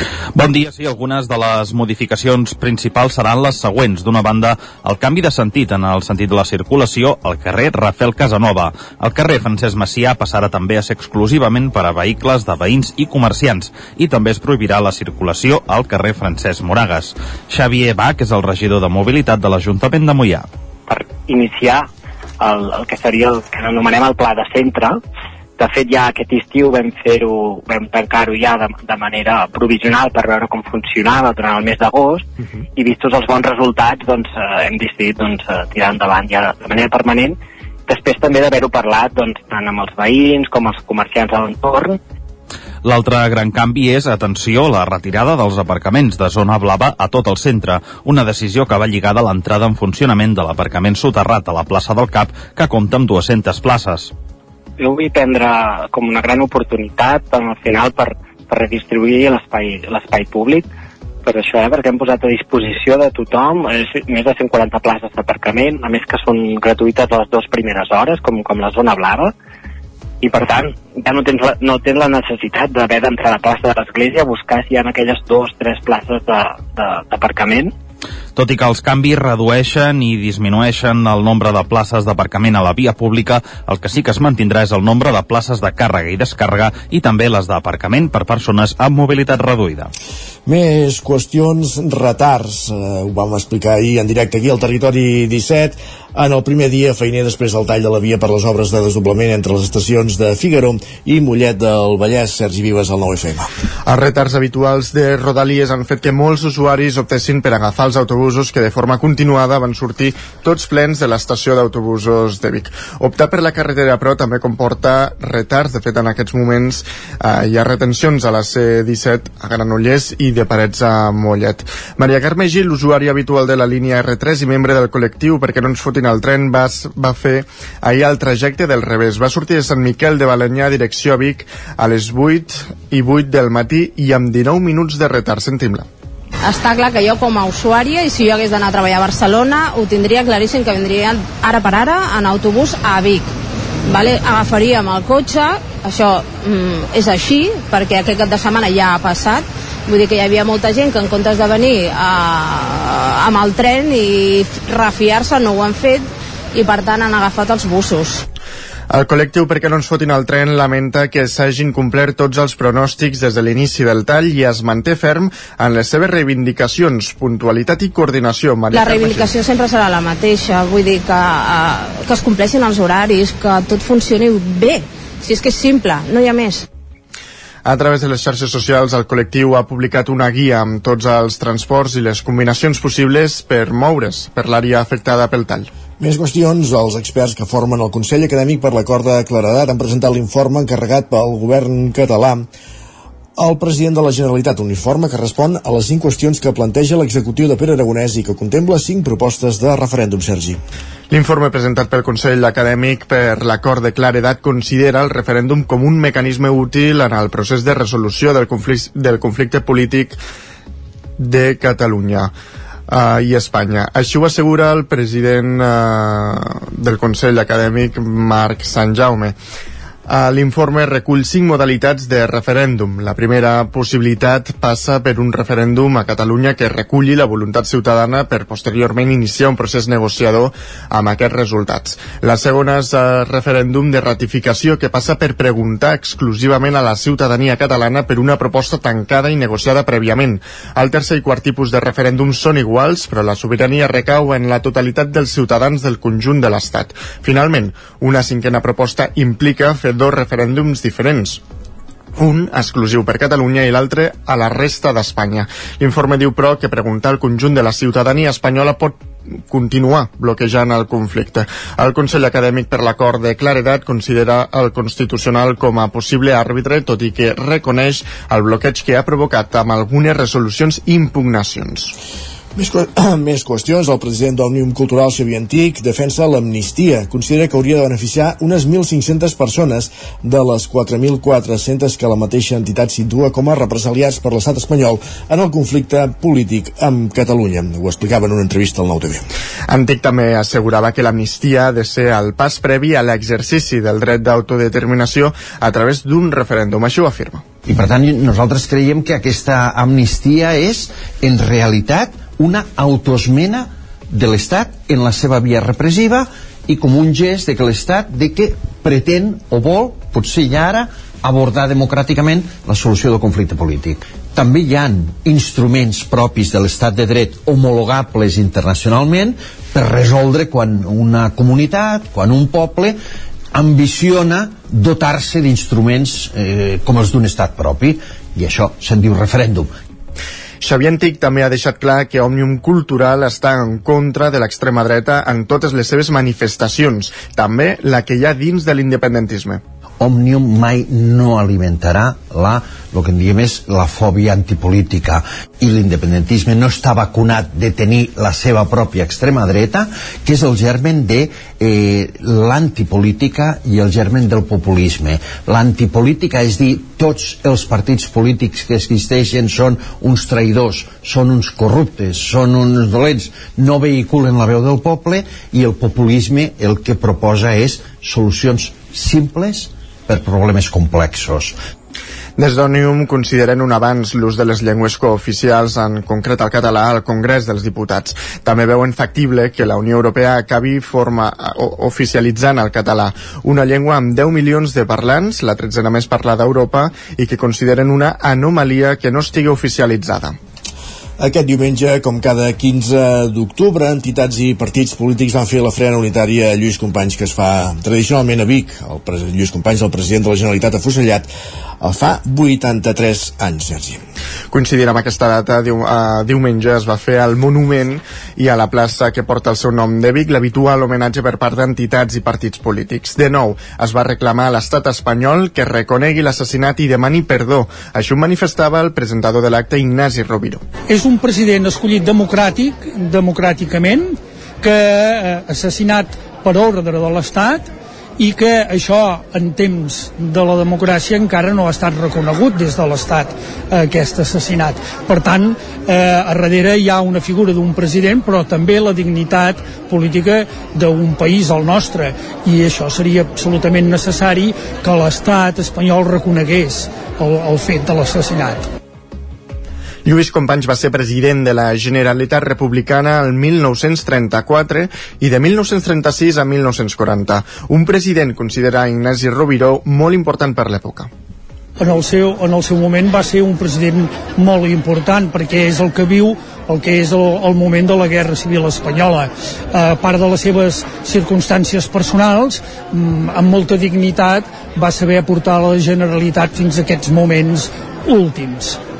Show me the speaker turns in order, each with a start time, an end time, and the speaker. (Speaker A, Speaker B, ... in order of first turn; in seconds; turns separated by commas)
Speaker A: 0.3-20.5, Speaker B: 20.9-21.9, Speaker B: 22.4-25.0, Speaker B: 25.6-32.2, Speaker B: 32.8-42.0, Speaker A: 42.8-54.1, Speaker B: 54.8-60.6, Speaker B: 61.2-69.3, Speaker B: 70.2-77.7, Speaker A: 78.3-89.9, Speaker C: 90.5-103.5, Speaker D: 103.8-135.9, Speaker E: 136.4-143.3, Speaker E: 143.8-158.2, Speaker D: 158.9-169.3, Speaker E: 168.7-176.6, Speaker D: 177.6-185.7, Speaker C: 186.0-192.5, Speaker C: 193.4-200.6, Speaker D: 201.1-210.2, Speaker D: 211.2-212.3, Speaker D: 212.9-219.3, Speaker D: 220.1-251.4, Speaker D: 252.2-271.9, Speaker C: 272.6-289.2, Speaker D: 289.7-297.4, Speaker F: 297.6-323.0, Speaker F: 323.5-329.7, Speaker D: 330.6-339.6, Speaker F: 340.0-371.6, Speaker D: 372.4-390.4, Speaker C: 391.2-401.3, Speaker C: 401.8-404.0, Speaker D: 404.5-420.6, Speaker G: 420.9-448.6, Speaker D: 450.0-461.1, Speaker G: 461.8-478.8